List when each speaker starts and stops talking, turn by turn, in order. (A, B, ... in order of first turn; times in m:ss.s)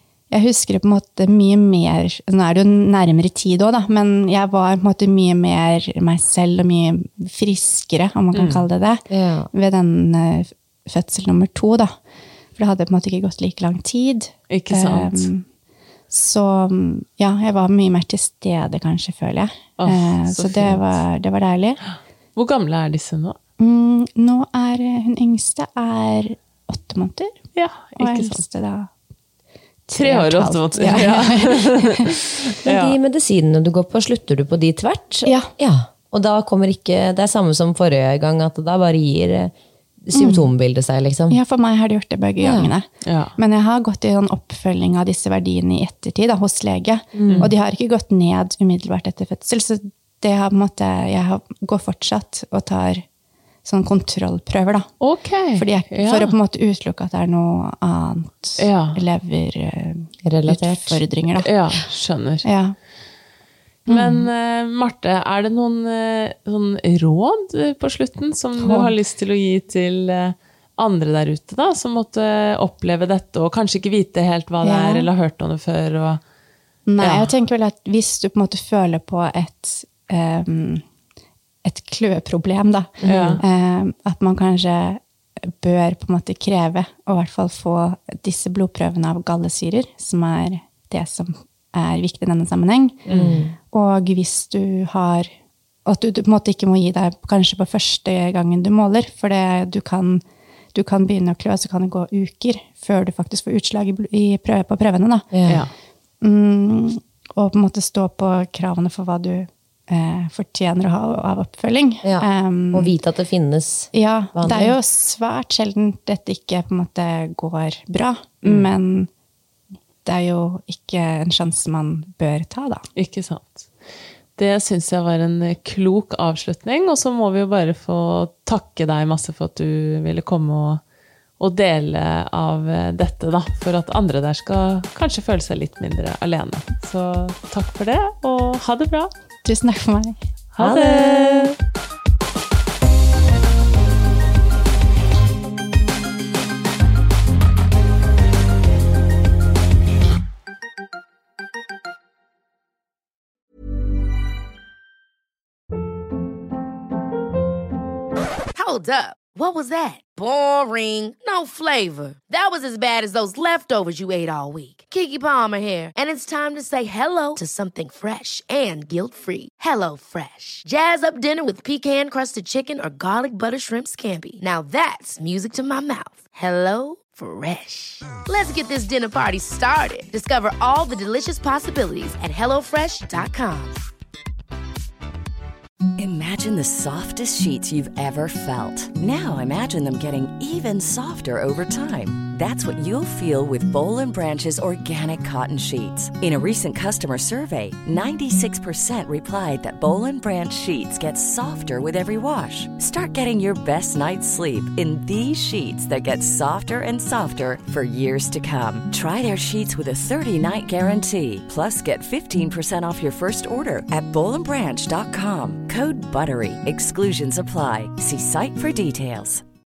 0:00.3-0:11.9 A
0:08.3-0:08.7 B
0:09.1-0:09.5 C
0:12.6-0:15.4 A
0:14.5-0:15.3 B
0:16.1-0:21.8 A
0:19.8-0:21.0 B
0:22.4-0:23.4 B
0:23.6-0:27.3 A
0:27.6-0:28.4 B
0:28.0-0:28.9 A
0:29.9-0:32.1 A
0:30.0-0:33.0 B
0:32.6-0:39.5 C
0:35.2-0:35.5 A
0:40.1-0:41.4 C
0:40.2-0:40.5 A
0:41.3-0:53.0 A
0:42.4-0:42.7 C
0:43.0-0:43.4 B
0:47.2-0:47.5 C
0:47.3-0:47.5 B
0:53.6-0:54.9 A
0:55.0-0:56.4 B
0:55.6-1:01.5 A
0:58.6-0:59.0 B
1:00.2-1:01.0 C
1:01.4-1:02.5 B
1:02.4-1:02.8 A
1:03.9-1:04.3 A
1:03.9-1:16.2 B
1:08.6-1:08.9 A
1:14.6-1:15.1 A
1:16.9-1:20.8 A
1:17.0-1:17.3 B
1:21.6-1:33.0 A
1:23.0-1:23.4 C
1:23.0-1:23.4 B
1:33.1-1:33.4 B
1:33.1-1:33.6 C
1:33.7-1:35.3 A
1:35.8-1:40.2 A
1:40.7-1:45.3 A
1:45.3-1:45.6 C
1:46.2-1:52.9 A
1:52.0-1:54.8 C
1:53.9-1:59.1 A
2:00.0-2:02.8 A
2:03.0-2:03.7 B
2:04.4-2:10.8 B
2:11.4-2:19.1 B
2:19.4-2:20.2 A
2:20.6-2:21.6 B
2:20.6-2:21.5 C
2:38.6-3:03.8 D
3:06.0-3:39.4 E